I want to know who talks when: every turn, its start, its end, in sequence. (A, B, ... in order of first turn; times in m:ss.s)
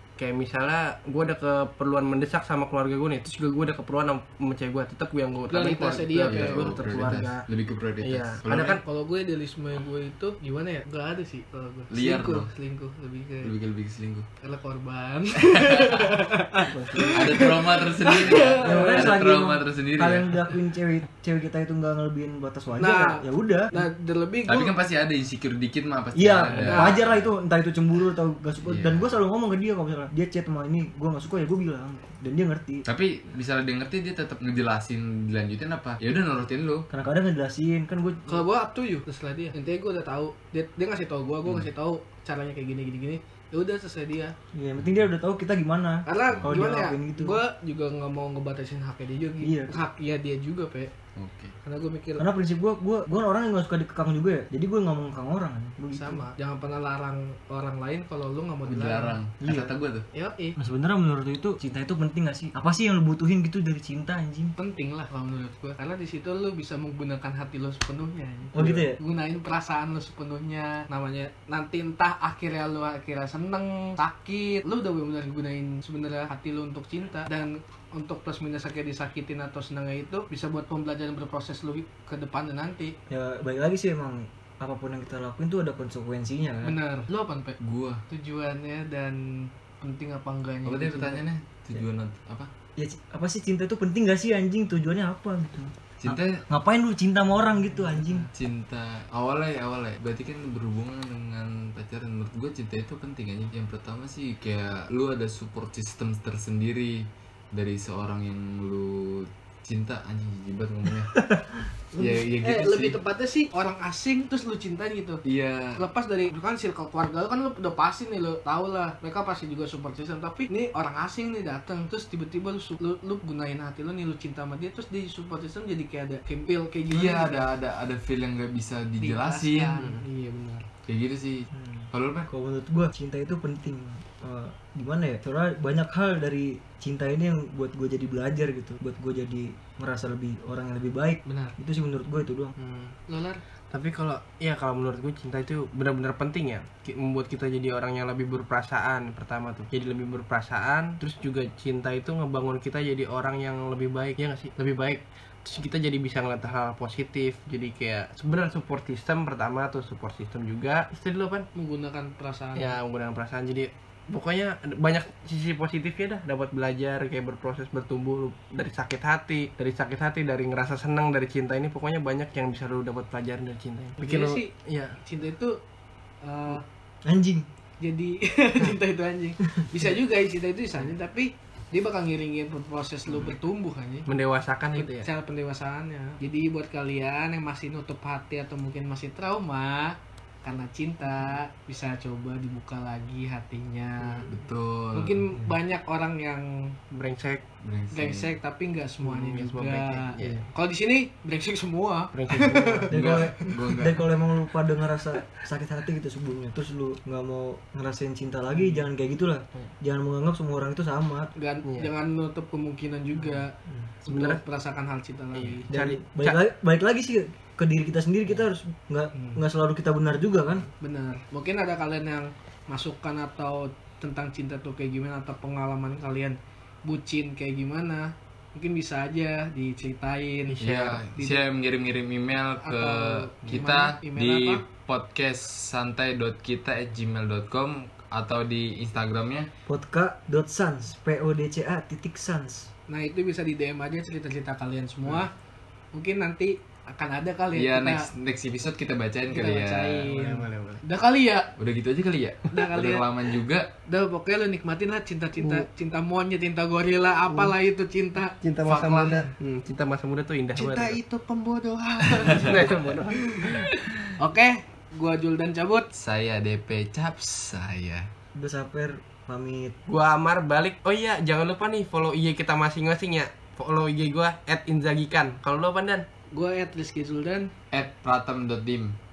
0:00.2-0:07.5 A
0:05.5-0:07.2 B
0:06.1-0:08.8 C
0:08.0-0:08.8 A
0:08.8-0:13.5 B
0:11.9-0:12.5 C
0:13.4-0:14.3 C
0:14.4-0:19.1 B
0:15.4-0:16.2 C
0:16.7-0:17.5 D
0:17.0-0:20.4 C
0:18.6-0:23.9 D
0:22.8-0:24.7 B
0:24.5-0:27.3 C
0:26.2-0:32.8 D
0:26.7-0:27.0 B
0:28.7-0:29.2 C
0:32.9-0:36.9 C
0:36.9-0:38.4 D
0:38.3-0:44.4 B
0:44.5-0:47.4 D
0:46.1-0:50.9 B
0:49.4-0:49.8 D
0:51.2-0:51.6 C
0:51.6-0:52.3 B
0:52.2-0:56.3 D
0:55.9-0:59.2 B
0:58.7-1:00.1 C
0:59.4-0:59.7 D
1:00.1-1:00.6 B
1:00.6-1:04.5 D
1:04.6-1:23.0 B
1:08.5-1:09.0 D
1:23.1-1:26.8 D
1:26.6-1:27.6 B
1:27.6-1:28.0 C
1:28.1-1:31.2 B
1:30.7-1:32.5 C
1:32.8-1:38.3 D
1:36.0-1:36.4 C
1:37.7-1:38.3 B
1:38.3-1:51.2 C
1:51.1-1:51.6 D
1:51.9-1:55.2 B
1:52.0-1:53.0 C
1:55.2-1:55.8 C
1:55.8-2:07.5 B
2:06.9-2:09.8 C
2:09.0-2:10.7 B
2:10.9-2:12.3 C
2:11.5-2:22.6 D
2:21.3-2:21.5 B
2:22.6-2:23.0 A
2:23.1-2:23.4 B
2:23.7-2:41.5 A
2:41.6-2:42.8 B
2:42.6-2:55.0 A
2:54.0-2:55.6 B
2:56.2-2:56.6 B
2:57.0-2:57.5 D
2:57.8-3:04.1 B
3:04.1-3:05.1 A
3:04.7-3:14.4 B
3:14.3-3:15.3 C
3:14.9-3:16.8 B
3:16.9-3:17.4 A
3:17.6-3:18.3 C
3:17.9-3:23.5 B
3:19.0-3:20.5 A
3:22.1-3:22.9 A
3:22.9-3:31.3 D
3:22.9-3:24.1 C
3:31.4-3:35.7 B
3:31.6-3:31.9 A
3:33.7-3:34.4 A
3:35.3-3:36.4 A
3:35.7-3:40.7 D
3:39.1-3:39.4 B
3:40.8-3:51.4 B
3:50.5-3:50.9 A
3:50.6-3:59.5 C
3:52.6-3:54.6 B
3:59.7-4:02.7 D
4:02.9-4:05.3 B
4:05.9-4:08.1 B
4:07.5-4:10.1 C
4:09.3-4:11.5 B
4:10.0-4:10.8 A
4:11.6-4:13.7 C
4:12.5-4:13.1 B
4:13.9-4:18.4 B
4:15.4-4:15.7 A
4:18.4-4:21.0 A
4:18.6-4:19.3 C
4:20.6-4:25.9 B
4:22.1-4:22.6 C
4:22.2-4:23.5 A
4:25.9-4:28.1 C
4:28.4-4:29.8 D
4:29.9-4:36.1 A
4:36.3-4:37.5 B
4:37.7-4:39.0 C